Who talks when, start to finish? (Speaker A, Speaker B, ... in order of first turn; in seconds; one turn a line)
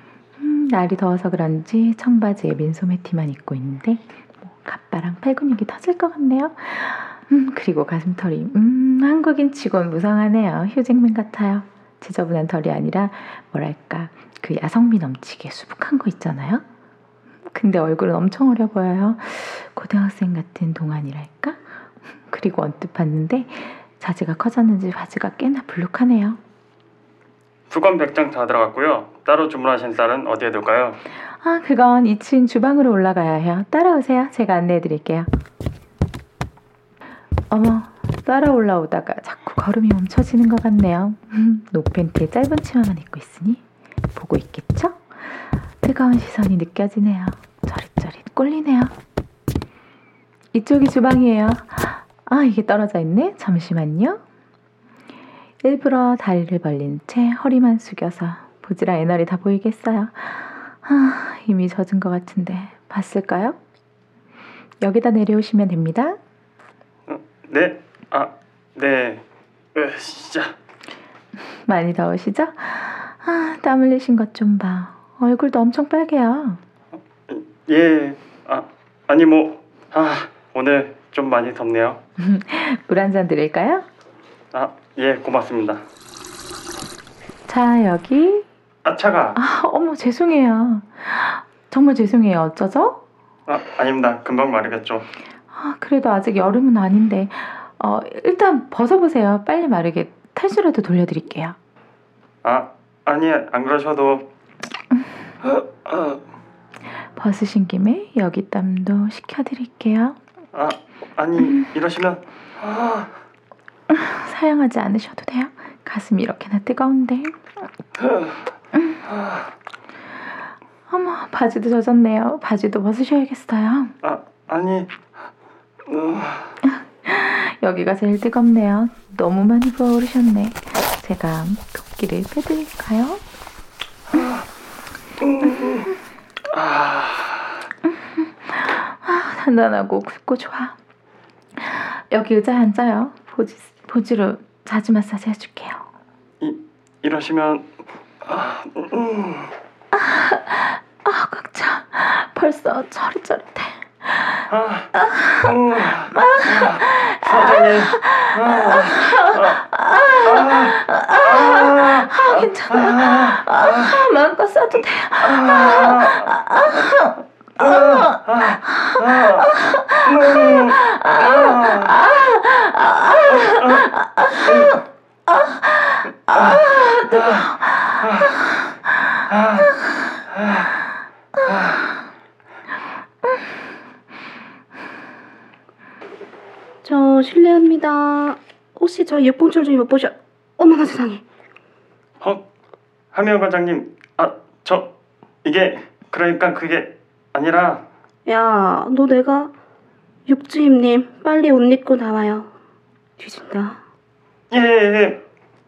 Speaker A: 0.4-16.6
Speaker A: 17.5-21.6
Speaker A: 22.3-26.4
Speaker B: 27.7-31.0
Speaker A: 31.4-35.3
Speaker A: 37.5-43.6
Speaker A: 44.1-45.0
Speaker A: 45.8-48.9
Speaker A: 50.5-54.2
Speaker A: 55.6-63.6
Speaker A: 64.8-66.2
Speaker B: 67.1-69.2
Speaker B: 69.8-70.5
Speaker A: 71.7-76.6
Speaker B: 77.3-82.0
Speaker A: 82.2-83.8
Speaker B: 84.5-85.8
Speaker A: 87.5-88.4
Speaker B: 88.8-89.4
Speaker A: 89.3-93.0
Speaker B: 93.5-95.1
Speaker A: 95.5-101.6
Speaker B: 102.4-104.2
Speaker B: 105.4-106.2
Speaker A: 107.2-110.2
Speaker B: 110.5-113.1
Speaker A: 111.4-111.7
Speaker A: 113.9-117.4
Speaker A: 120.9-123.9
Speaker B: 124.0-124.9
Speaker B: 125.9-126.5
Speaker A: 126.6-133.2
Speaker B: 134.1-134.4
Speaker B: 135.2-135.9
Speaker B: 136.5-137.5
Speaker A: 137.9-140.8
Speaker A: 141.6-145.8
Speaker B: 146.4-147.7
Speaker B: 148.2-149.5
Speaker A: 149.9-155.6
Speaker B: 154.5-154.9
Speaker B: 155.4-159.6
Speaker A: 156.1-177.7
Speaker B: 160.2-163.9
Speaker B: 165.2-166.3
Speaker B: 167.6-169.5
Speaker B: 170.1-172.0
Speaker B: 173.4-173.8
Speaker B: 174.4-174.8
Speaker B: 176.3-177.5
Speaker B: 178.0-178.3
Speaker B: 179.3-179.7
Speaker B: 180.4-180.7
Speaker C: 186.8-191.2
Speaker B: 193.1-194.9
Speaker B: 195.4-197.8
Speaker C: 198.2-199.5
Speaker C: 200.3-202.5
Speaker C: 203.2-203.8
Speaker B: 204.5-205.2